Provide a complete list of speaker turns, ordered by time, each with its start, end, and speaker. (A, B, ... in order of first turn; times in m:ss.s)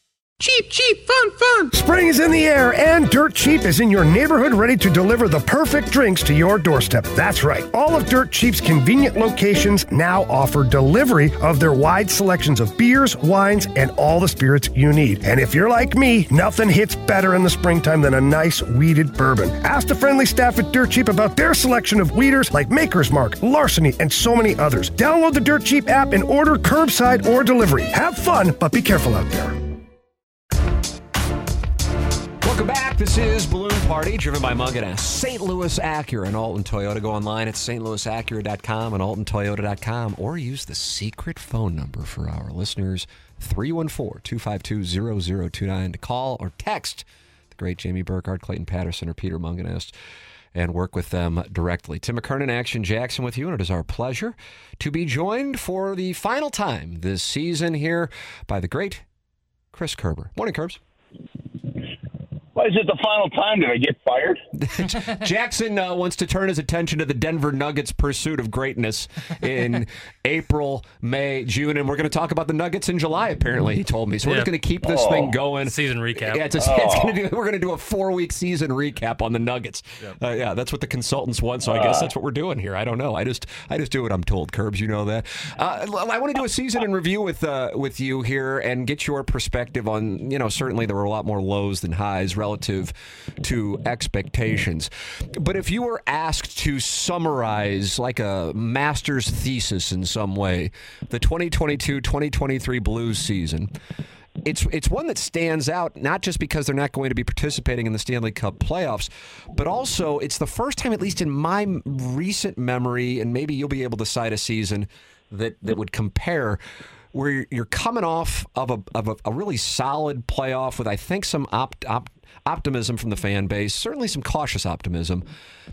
0:00.9-0:01.4 A
0:01.7-0:29.6 B
0:32.4-0:49.9 C
0:50.5-0:59.0 C
0:59.7-1:00.8 C
1:02.6-1:04.4 D
1:04.6-1:43.7 C
1:14.2-1:14.5 A
1:14.8-1:15.4 D
1:15.6-1:16.6 A
1:16.6-1:17.2 D
1:21.6-1:22.1 D
1:44.4-1:56.6 C
1:57.1-2:05.2 C